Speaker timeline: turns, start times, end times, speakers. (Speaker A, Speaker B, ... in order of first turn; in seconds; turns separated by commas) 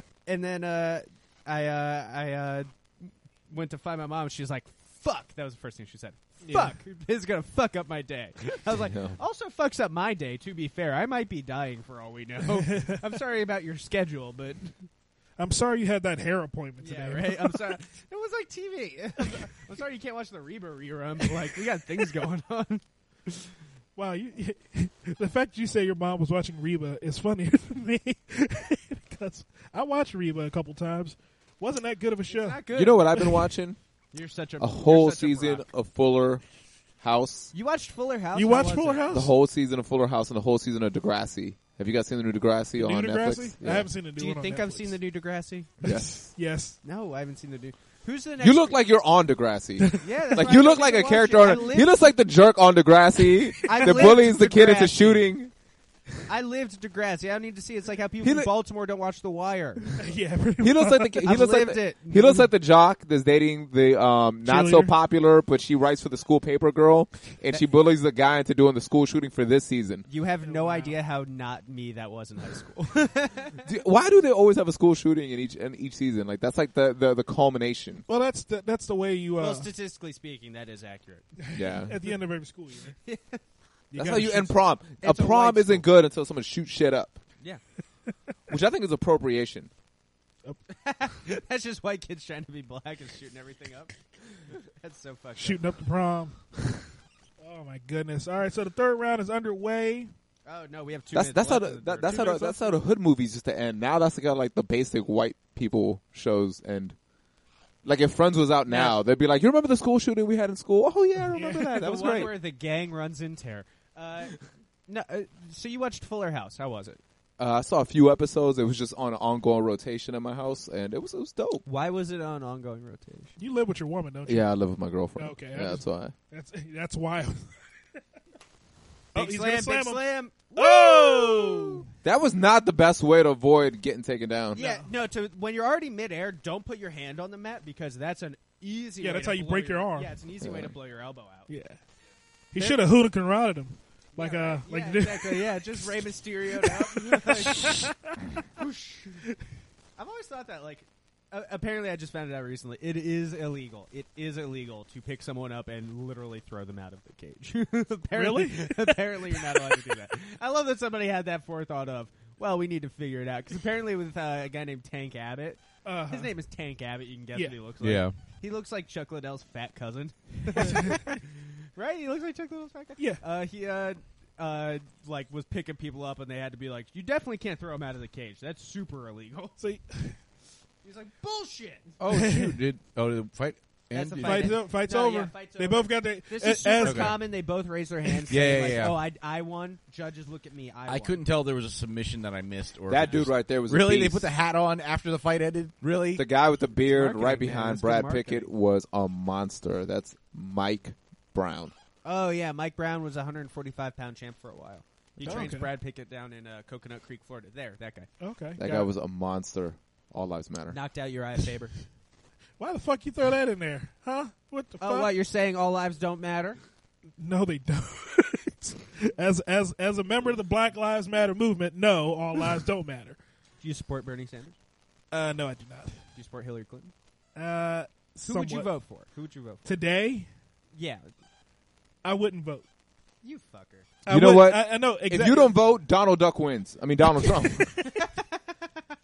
Speaker A: 0.3-14.8, Speaker B: 6.4-6.8, Speaker C: 8.8-9.2, Speaker B: 12.6-13.0, Speaker B: 15.4-17.7, Speaker A: 16.8-23.5, Speaker B: 24.0-33.4, Speaker A: 32.3-33.1, Speaker C: 32.8-33.8, Speaker A: 34.1-35.6, Speaker C: 34.6-36.4, Speaker C: 37.0-37.5, Speaker A: 37.5-39.2, Speaker B: 38.4-39.3, Speaker C: 39.1-43.9, Speaker B: 42.8-45.0, Speaker A: 44.2-45.7, Speaker B: 45.8-46.8, Speaker C: 45.8-46.3, Speaker A: 46.8-48.8, Speaker C: 48.4-55.5, Speaker B: 49.9-50.4, Speaker A: 50.0-52.1, Speaker A: 53.6-55.4, Speaker B: 53.8-54.2, Speaker A: 56.3-60.0, Speaker C: 58.2-58.5, Speaker B: 60.0-61.3, Speaker C: 60.6-70.1, Speaker A: 61.2-62.5, Speaker B: 64.5-64.9, Speaker A: 70.1-73.6, Speaker B: 70.4-71.0, Speaker C: 73.6-78.1, Speaker B: 78.1-79.7, Speaker A: 79.4-81.3, Speaker B: 81.4-83.0, Speaker C: 81.5-82.0, Speaker A: 83.0-83.4, Speaker B: 83.9-84.5, Speaker C: 83.9-87.2, Speaker A: 85.0-85.9, Speaker C: 88.5-89.7, Speaker A: 90.7-95.6, Speaker B: 95.4-96.4, Speaker B: 97.4-100.1, Speaker A: 100.5-102.8, Speaker C: 101.1-107.0, Speaker C: 107.8-112.3, Speaker A: 108.7-109.0, Speaker B: 111.3-111.7, Speaker A: 111.4-117.0, Speaker C: 117.4-121.6, Speaker A: 121.7-123.4, Speaker B: 123.4-124.5, Speaker C: 124.3-126.1, Speaker B: 125.2-127.5, Speaker B: 129.1-131.8, Speaker A: 129.1-131.9, Speaker C: 132.0-134.6, Speaker A: 134.5-141.5, Speaker B: 134.6-134.9, Speaker B: 139.0-140.1, Speaker C: 140.4-140.7, Speaker B: 141.5-141.8, Speaker B: 142.5-145.9, Speaker A: 142.6-142.9, Speaker A: 144.2-147.9, Speaker B: 146.6-148.2, Speaker A: 148.6-149.2, Speaker A: 150.0-179.6, Speaker B: 158.1-159.6, Speaker B: 165.8-166.3, Speaker D: 167.8-168.2, Speaker B: 170.6-171.2, Speaker B: 173.0-173.2, Speaker B: 179.6-180.2, Speaker A: 180.8-182.0, Speaker D: 182.0-184.6, Speaker B: 182.1-182.6, Speaker A: 183.9-191.2, Speaker B: 184.2-187.2, Speaker D: 186.8-187.2, Speaker D: 188.3-189.0, Speaker D: 190.9-196.2, Speaker C: 192.9-194.3, Speaker C: 196.2-201.7, Speaker A: 196.8-198.5, Speaker A: 202.0-208.1, Speaker B: 205.2-205.7, Speaker B: 208.2-208.9, Speaker C: 208.6-210.8, Speaker A: 210.7-211.7, Speaker B: 212.6-215.1, Speaker A: 214.8-216.6, Speaker B: 217.2-223.2, Speaker A: 223.6-224.6, Speaker B: 225.1-226.0, Speaker A: 226.2-226.9, Speaker B: 227.3-228.7, Speaker A: 228.2-229.7, Speaker B: 229.6-230.3, Speaker A: 230.7-231.1, Speaker B: 232.0-232.7, Speaker A: 233.2-233.9, Speaker B: 234.1-235.6, Speaker C: 234.1-237.8, Speaker A: 237.8-238.7